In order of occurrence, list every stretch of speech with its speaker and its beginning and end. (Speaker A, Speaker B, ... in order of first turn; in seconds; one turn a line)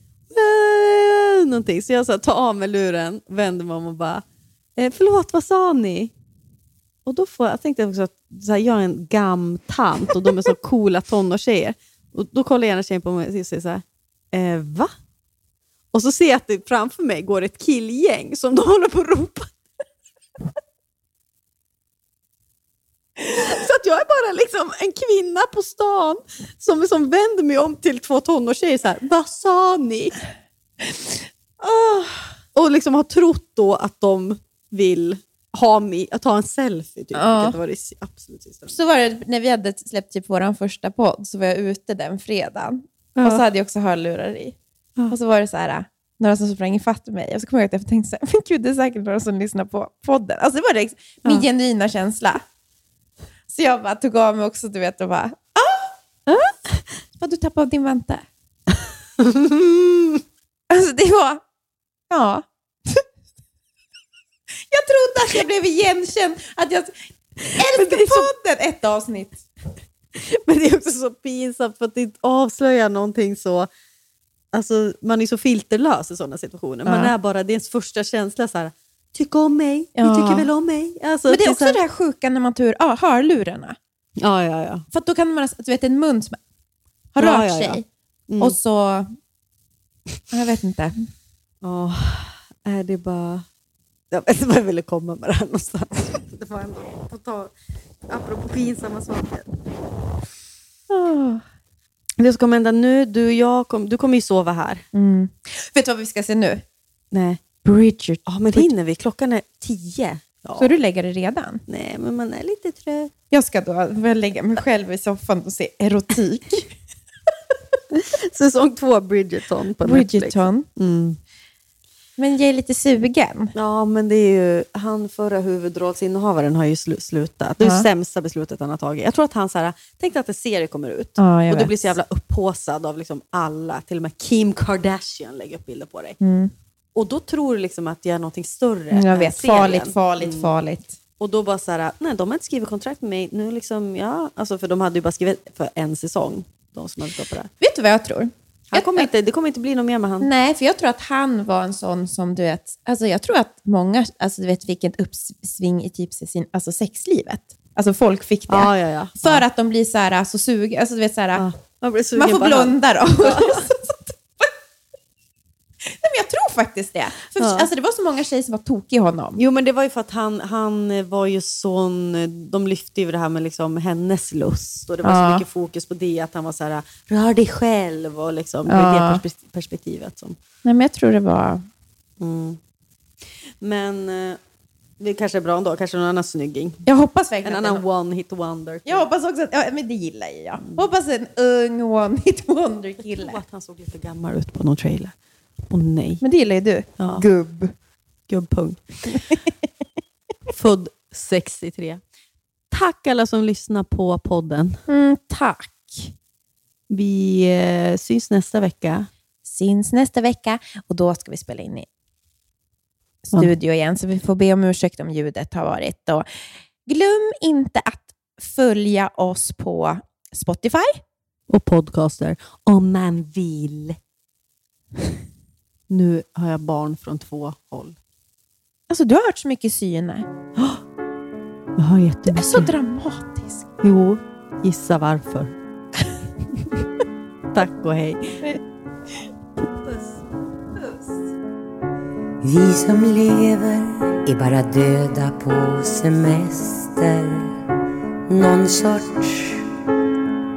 Speaker A: 0.3-4.2
Speaker A: 4.8-6.1
Speaker A: 7.0-14.9
Speaker A: 15.9-19.5
Speaker A: 23.2-30.1
Speaker B: 31.6-32.0
Speaker A: 32.4-38.7
Speaker B: 37.1-37.6
Speaker B: 38.7-44.5
Speaker A: 43.1-43.4
Speaker B: 45.1-52.4
Speaker B: 53.5-56.5
Speaker B: 57.1-58.2
Speaker A: 59.2-60.2
Speaker B: 60.7-61.4
Speaker B: 62.1-63.0
Speaker B: 64.7-66.9
Speaker B: 67.5-69.5
Speaker A: 67.6-68.3
Speaker A: 70.1-73.7
Speaker A: 74.5-81.8
Speaker B: 76.8-77.1
Speaker B: 80.0-80.5
Speaker B: 81.3-83.8
Speaker A: 84.2-84.9
Speaker B: 84.9-86.4
Speaker B: 87.1-87.8
Speaker A: 87.2-88.5
Speaker B: 88.4-89.1
Speaker B: 90.3-91.1
Speaker A: 91.6-93.5
Speaker A: 94.1-97.5
Speaker A: 98.1-99.6
Speaker B: 100.9-101.4
Speaker A: 102.2-104.8
Speaker B: 104.9-106.6
Speaker A: 107.1-107.6
Speaker B: 107.6-108.7
Speaker A: 108.2-110.7
Speaker B: 110.6-111.6
Speaker A: 111.7-113.1
Speaker B: 113.3-116.7
Speaker A: 117.9-121.2
Speaker B: 119.8-120.7
Speaker B: 122.2-123.5
Speaker A: 123.5-136.2
Speaker B: 127.6-127.8
Speaker B: 131.2-131.9
Speaker B: 136.2-136.5
Speaker A: 136.9-140.5
Speaker B: 138.9-141.0
Speaker A: 141.2-147.5
Speaker B: 147.6-149.1
Speaker A: 148.7-150.3
Speaker B: 150.2-161.4
Speaker A: 158.5-159.4
Speaker A: 161.3-163.7
Speaker B: 162.1-164.5
Speaker B: 165.8-169.4
Speaker A: 167.3-167.7
Speaker A: 169.3-180.4
Speaker B: 175.0-175.4
Speaker B: 178.7-179.2
Speaker B: 180.6-181.6
Speaker A: 182.2-182.6
Speaker A: 183.6-184.4
Speaker A: 185.0-186.8
Speaker B: 186.8-187.8
Speaker A: 187.4-189.1
Speaker B: 188.8-193.4
Speaker A: 193.1-195.1
Speaker A: 195.7-196.2
Speaker B: 196.2-197.7
Speaker A: 197.0-197.2
Speaker A: 198.3-199.2
Speaker A: 200.5-202.0
Speaker A: 202.7-204.8
Speaker B: 204.9-206.1
Speaker A: 206.9-209.1
Speaker B: 209.4-211.9
Speaker B: 213.2-216.2
Speaker B: 216.8-221.0
Speaker A: 221.5-224.0
Speaker A: 225.9-228.0
Speaker B: 228.9-230.3
Speaker A: 231.8-232.7
Speaker B: 232.3-233.6
Speaker A: 233.8-235.5
Speaker A: 237.5-238.4
Speaker C: 242.4-247.5
Speaker C: 248.3-249.6